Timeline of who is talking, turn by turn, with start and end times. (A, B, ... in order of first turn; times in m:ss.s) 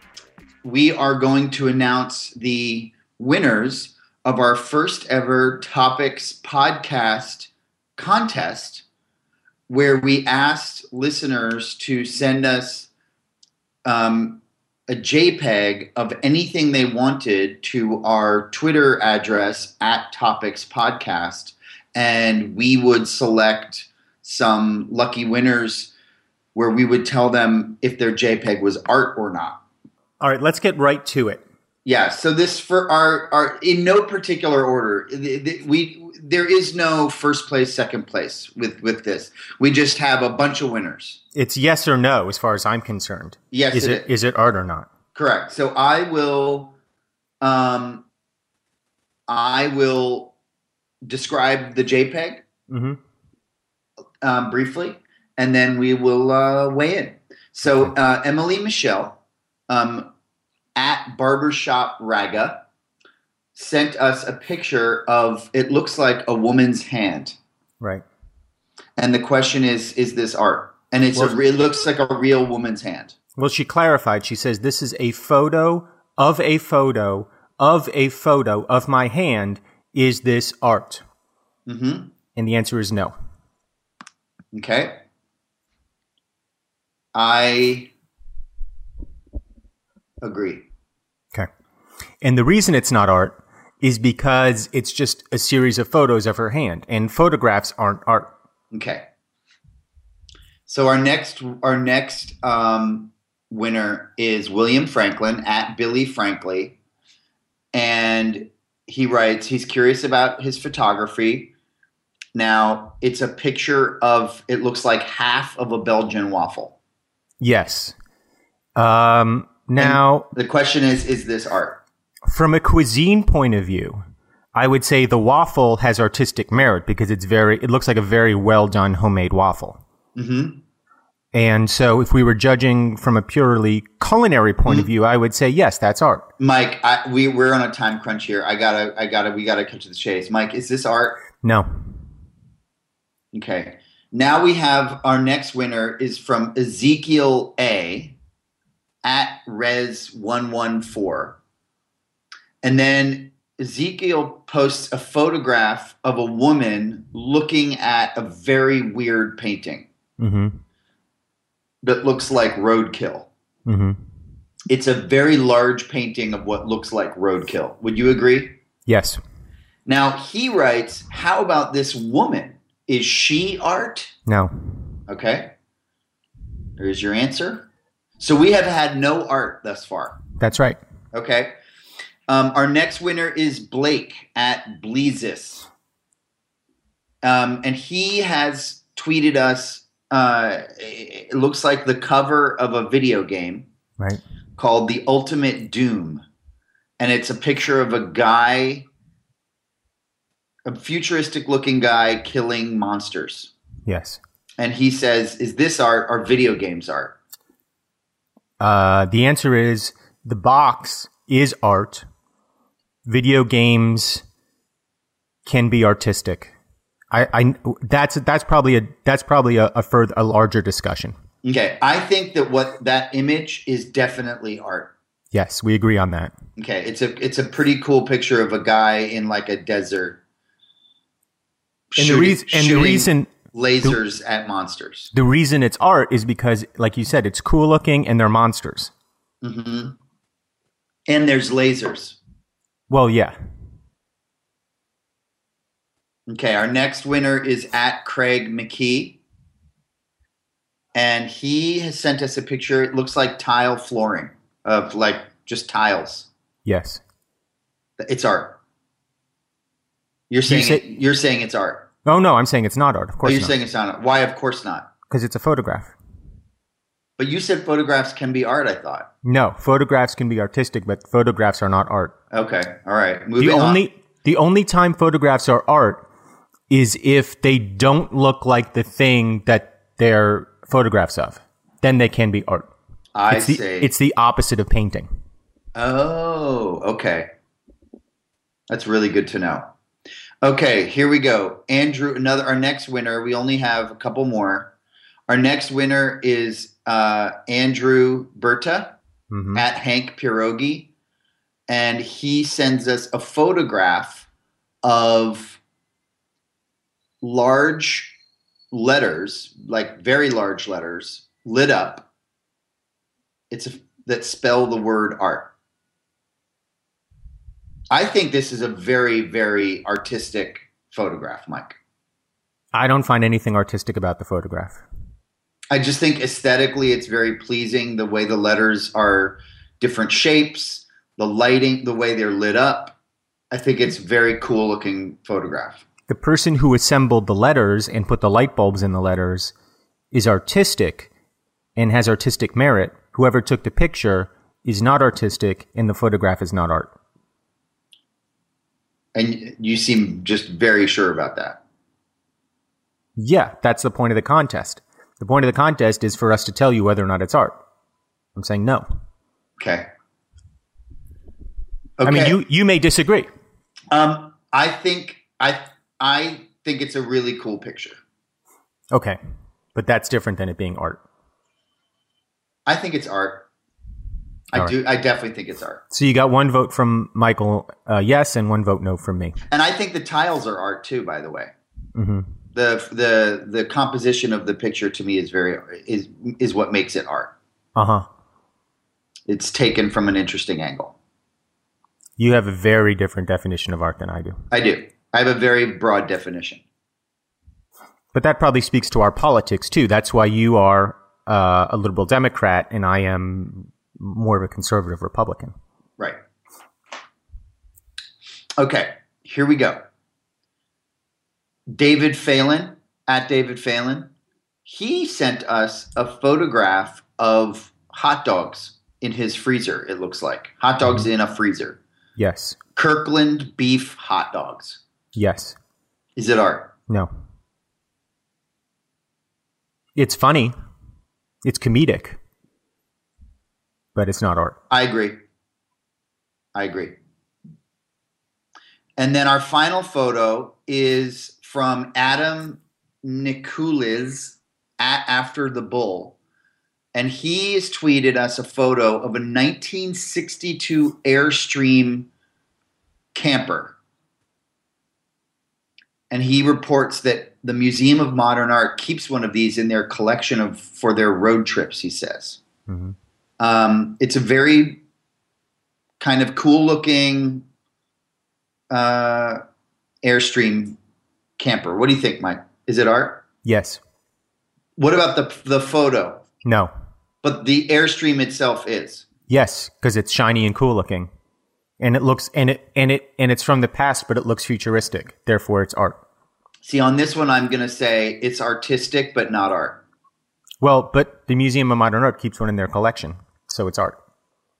0:00.6-0:08.8 A
0:09.7-0:12.9 A
0:13.8-0:25.9 A
0:26.5-0:29.6 A
0:30.2-0:31.4 B
0:31.8-0:41.2 A
0:41.3-0:44.9 B
0:43.5-0:44.1 A
0:45.1-0:46.7 A
0:47.4-0:48.0 A
0:49.3-0:50.3 A
0:51.0-0:52.4 A
0:52.7-0:53.0 B
0:54.2-0:59.2 A
0:59.7-1:00.1 A
1:00.8-1:02.6 A
1:03.5-1:07.4 A
1:09.0-1:13.2 A
1:13.4-1:21.0 B
1:21.7-1:22.1 A
1:22.4-1:23.1 B
1:24.5-1:25.0 A
1:27.1-1:27.9 A
1:30.2-1:30.7 A
1:32.2-1:38.3 B
1:38.7-1:39.0 A
1:40.7-1:46.8 A
1:47.7-1:51.5 A
1:52.3-1:56.7 A
1:57.4-1:57.9 B
1:58.8-2:00.3 B
1:59.8-2:01.8 A
2:02.3-2:04.0 B
2:04.5-2:09.8 B
2:10.2-2:10.6 A
2:11.3-2:16.2 B
2:16.4-2:21.2 A
2:23.3-2:28.2 A
2:29.0-2:31.4 A
2:32.6-2:39.9 A
2:40.2-2:40.6 B
2:41.8-2:43.3 A
2:43.6-2:44.0 B
2:44.7-2:48.6 A
2:48.9-2:49.2 B
2:49.8-2:54.1 A
2:54.3-2:54.5 B
2:55.1-2:55.5 A
2:56.8-2:57.7 A
2:58.2-3:00.2 A
3:00.4-3:00.8 B
3:01.1-3:01.5 A
3:02.3-3:05.7 A
3:07.2-3:13.6 A
3:14.6-3:16.2 A
3:17.0-3:18.9 A
3:20.6-3:23.5 A
3:23.8-3:24.2 B
3:24.6-3:27.2 A
3:28.6-3:32.0 B
3:33.0-3:34.2 B
3:35.4-3:36.5 B
3:37.1-3:41.1 B
3:41.4-3:44.9 A
3:45.3-3:46.3 B
3:46.6-3:50.2 A
3:51.9-3:55.1 A
3:52.0-3:53.3 B
3:55.1-3:58.9 B
3:59.4-4:00.0 A
4:01.1-4:02.2 A
4:02.9-4:03.3 B
4:06.3-4:09.2 A
4:10.9-4:16.3 A
4:16.6-4:17.0 B
4:18.0-4:18.6 A
4:20.3-4:21.9 A
4:20.4-4:20.8 B
4:22.0-4:23.5 B
4:23.2-4:24.9 A
4:25.1-4:25.9 B
4:27.2-4:29.1 A
4:29.2-4:32.1 B
4:32.3-4:33.8 A
4:33.4-4:36.0 B
4:36.7-4:42.7 B
4:43.1-4:43.9 A
4:43.3-4:45.1 B
4:45.7-4:47.3 A
4:48.7-4:49.7 A
4:50.4-4:54.7 A
4:55.3-4:59.0 A
4:59.3-4:59.6 B
4:59.5-5:00.9 A
5:01.7-5:04.3 A
5:04.8-5:05.6 A
5:07.2-5:08.2 A
5:08.7-5:12.1 A
5:13.5-5:15.5 A
5:17.9-5:21.8 A
5:22.7-5:24.8 B
5:25.7-5:33.0 A
5:33.5-5:35.8 A
5:36.1-5:39.5 B
5:40.1-5:41.1 B
5:41.8-5:46.9 B
5:49.1-5:51.6 A
5:53.2-5:57.6 B
5:58.4-5:58.8 B
5:59.6-5:59.9 A
6:02.0-6:02.4 A
6:02.0-6:03.3 B
6:03.9-6:08.0 A
6:08.9-6:09.2 B
6:09.7-6:11.0 B
6:12.6-6:13.5 A
6:14.5-6:15.8 A
6:15.9-6:19.4 B
6:19.5-6:21.5 A
6:21.9-6:22.2 B
6:22.5-6:27.3 A
6:27.8-6:28.0 B
6:29.3-6:30.9 A
6:32.2-6:34.4 B
6:34.5-6:36.6 A
6:38.1-6:45.5 B
6:48.6-6:49.8 A
6:51.7-6:54.1 A
6:54.6-7:01.8 A
7:02.2-7:02.6 B
7:02.8-7:04.8 A
7:05.1-7:05.6 B
7:06.2-7:06.7 A
7:10.0-7:10.5 B
7:11.4-7:12.2 B
7:13.9-7:14.6 B
7:14.7-7:15.2 A
7:16.5-7:17.0 A
7:19.0-7:26.2 A
7:26.9-7:32.1 A
7:33.1-7:33.8 A
7:36.1-7:42.4 A
7:42.7-7:42.9 B
7:43.4-7:44.8 A
7:46.0-7:47.4 A
7:48.7-7:49.4 A
7:50.0-7:50.8 A
7:51.4-7:53.2 A
7:53.4-7:53.8 B
7:54.8-7:56.2 A
7:56.4-7:56.7 B
7:57.2-7:59.0 A
7:59.3-8:01.1 B
8:01.8-8:06.0 B
8:06.6-8:09.8 A
8:10.6-8:14.0 B